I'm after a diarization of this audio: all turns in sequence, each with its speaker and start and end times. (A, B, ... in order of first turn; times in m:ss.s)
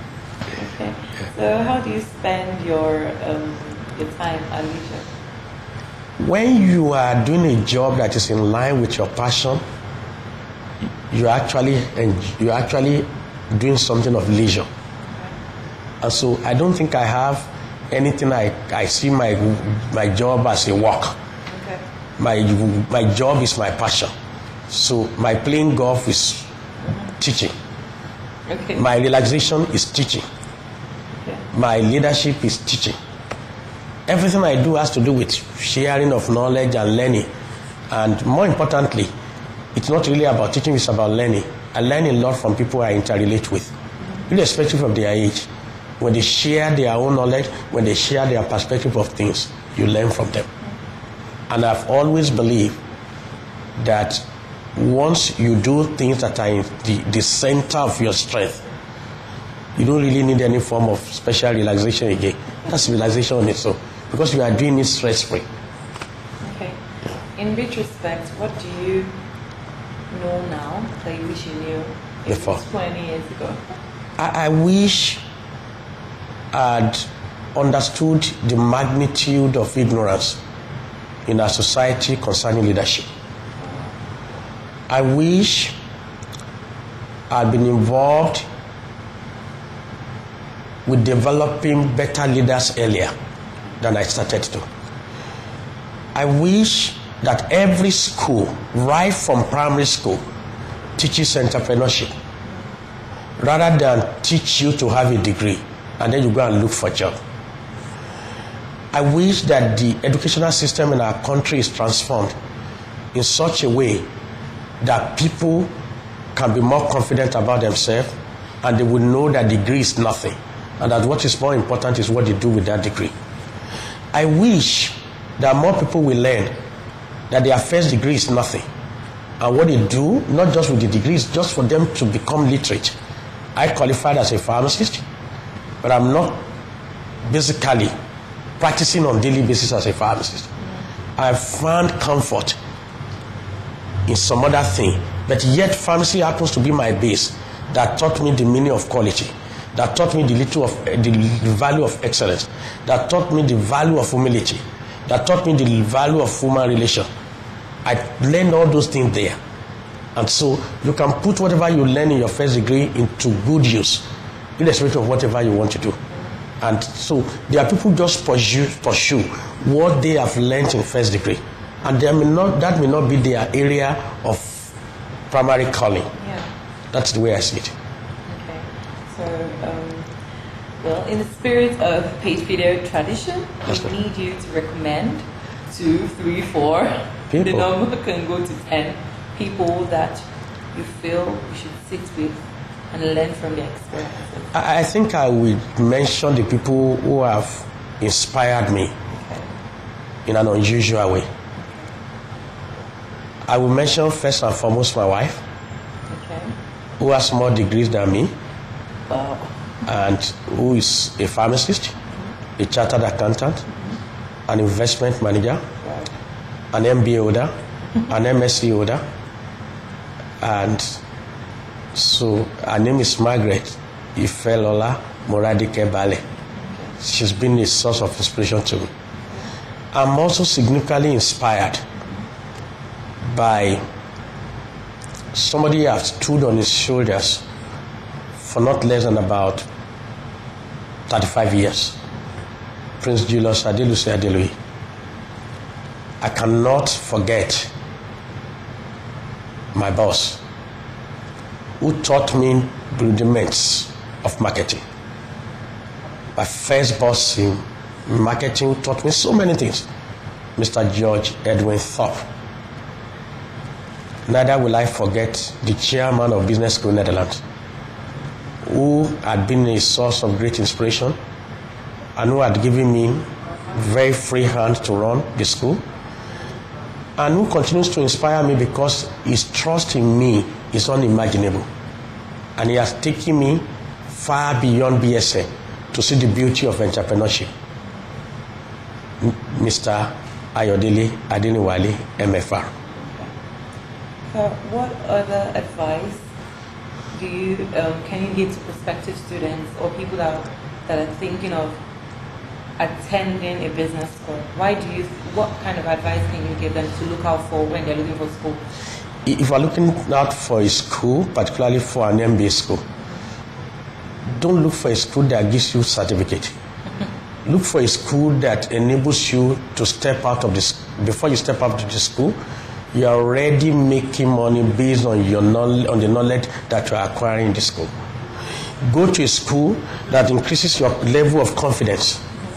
0:00.5-0:05.1 A
0:06.2-0:09.6 B
0:11.1-0:14.6 B
0:15.1-0:15.3 A
0:16.0-0:21.2 B
0:21.5-0:21.8 A
0:22.2-0:24.1 B
0:24.7-0:26.5 B
0:27.2-0:27.5 B
0:28.5-0:28.9 A
0:28.8-0:30.2 B
0:31.5-0:32.9 B
0:34.1-0:37.3 B
0:37.9-0:39.1 B
0:39.7-0:43.7 B
0:44.3-0:45.5 B
0:46.0-0:50.5 B
0:51.5-0:52.8 B
0:53.8-0:54.2 B
0:54.8-0:58.6 B
0:59.8-1:05.4 B
1:06.4-1:06.8 A
1:07.3-1:09.1 A
1:10.1-1:13.6 A
1:12.3-1:12.6 B
1:14.2-1:15.2 B
1:16.5-1:20.4 B
1:21.2-1:23.1 B
1:24.9-1:25.8 B
1:27.3-1:28.4 B
1:30.8-1:33.1 B
1:33.8-1:34.6 B
1:36.1-1:40.2 B
1:41.0-1:42.1 B
1:43.4-1:47.2 B
1:48.9-1:52.3 B
1:53.1-1:54.0 B
1:54.8-1:55.7 B
1:56.3-2:03.1 B
2:04.1-2:06.5 B
2:07.3-2:08.6 B
2:09.4-2:12.9 B
2:13.5-2:15.0 B
2:15.8-2:16.4 B
2:17.2-2:17.9 B
2:18.6-2:20.5 B
2:21.2-2:22.6 B
2:24.1-2:37.0 B
2:37.8-2:39.4 B
2:40.1-2:44.0 B
2:44.6-2:46.0 B
2:46.6-2:54.7 B
2:55.3-2:56.1 B
2:56.2-2:56.5 A
2:56.9-2:57.7 B
2:58.3-3:00.1 A
3:00.8-3:14.5 A
3:07.3-3:07.7 B
3:14.5-3:18.9 B
3:19.1-3:19.5 A
3:20.2-3:21.2 B
3:21.6-3:21.9 A
3:23.5-3:25.4 B
3:26.1-3:26.5 A
3:27.0-3:28.3 B
3:29.1-3:29.5 A
3:29.8-3:31.9 B
3:32.6-3:33.6 B
3:34.5-3:35.6 B
3:36.7-3:37.5 B
3:38.1-3:39.0 B
3:40.4-3:41.0 B
3:41.9-3:46.2 B
3:47.0-3:48.9 B
3:49.9-3:51.8 B
3:53.3-3:53.8 B
3:55.3-3:57.4 B
3:58.4-3:59.7 B
4:01.1-4:02.0 B
4:03.0-4:04.5 B
4:06.2-4:07.7 B
4:09.7-4:10.4 B
4:11.8-4:14.8 B
4:16.4-4:19.9 B
4:20.6-4:22.3 B
4:24.3-4:27.4 B
4:28.6-4:31.2 B
4:32.2-4:35.8 B
4:37.2-4:41.7 B
4:42.6-4:47.5 B
4:49.2-4:52.7 B
4:53.0-4:53.3 A
4:54.3-4:56.2 A
4:57.1-5:01.8 A
5:02.8-5:08.6 A
5:09.2-5:12.8 B
5:14.4-5:16.5 B
5:17.4-5:22.4 B
5:22.9-5:27.9 B
5:28.8-5:32.2 B